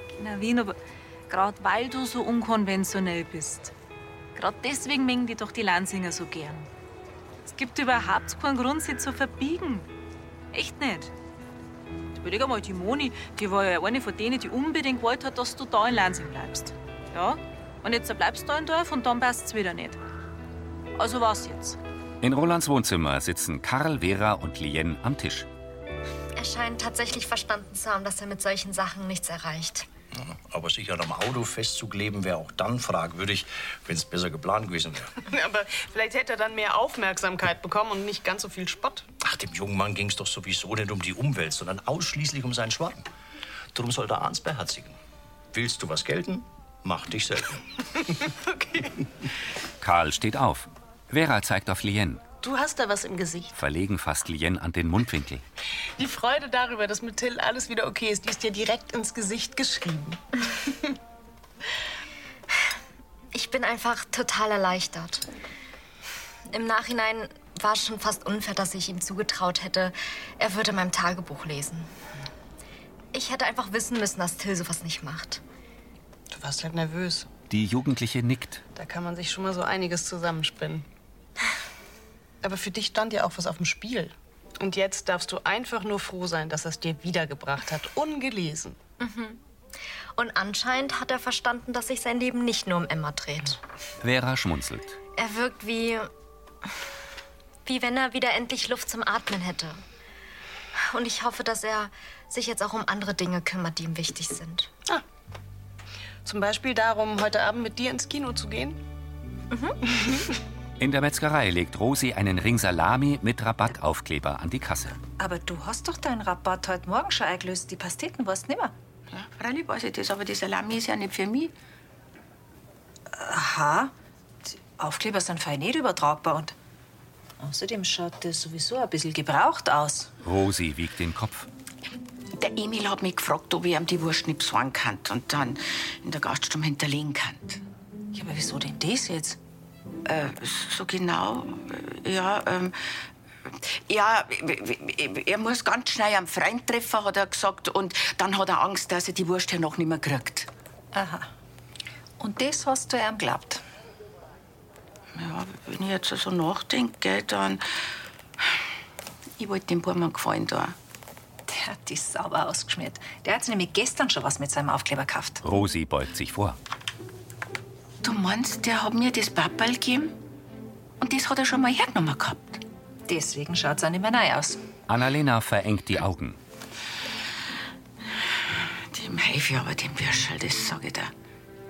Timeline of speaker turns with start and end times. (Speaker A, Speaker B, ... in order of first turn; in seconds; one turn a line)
Speaker A: 0.2-0.8
Speaker A: 1.3-3.7
Speaker A: 4.3-6.7
Speaker A: 7.5-9.9
Speaker A: 10.5-11.1
Speaker A: 12.1-20.0
Speaker A: 20.9-21.8
Speaker B: 22.2-25.5
Speaker C: 26.4-29.9
Speaker D: 30.1-35.1
Speaker E: 35.3-39.1
Speaker D: 39.2-43.0
Speaker D: 43.7-45.0
Speaker D: 45.5-47.6
Speaker E: 48.4-48.9
Speaker B: 49.8-52.2
Speaker E: 52.4-53.5
Speaker B: 53.5-55.4
Speaker E: 56.0-60.7
Speaker C: 63.3-65.2
Speaker C: 66.5-71.9
Speaker C: 73.1-75.4
Speaker E: 76.3-77.3
Speaker B: 77.5-78.6
Speaker E: 78.7-80.8
Speaker E: 82.4-88.8
Speaker C: 89.0-89.4
Speaker C: 90.1-93.6
Speaker B: 94.0-95.0
Speaker C: 95.2-96.1
Speaker C: 97.7-99.8
Speaker C: 100.9-104.7
Speaker E: 106.2-108.8
Speaker C: 109.5-110.0
Speaker B: 110.8-115.0
Speaker F: 115.2-118.7
Speaker G: 119.1-121.5
Speaker F: 123.1-123.9
Speaker F: 124.4-126.5
Speaker F: 127.4-130.1
Speaker B: 130.2-131.5
Speaker G: 132.3-137.6
Speaker F: 138.1-139.4
Speaker G: 140.1-150.5
Speaker F: 150.9-151.3
Speaker F: 152.2-153.6
Speaker G: 155.1-157.8
Speaker G: 159.4-160.8
Speaker F: 161.5-165.4
Speaker B: 165.4-166.6
Speaker G: 168.0-170.1
Speaker G: 171.0-172.6
Speaker F: 173.1-174.6
Speaker B: 174.9-176.4
Speaker G: 178.9-181.1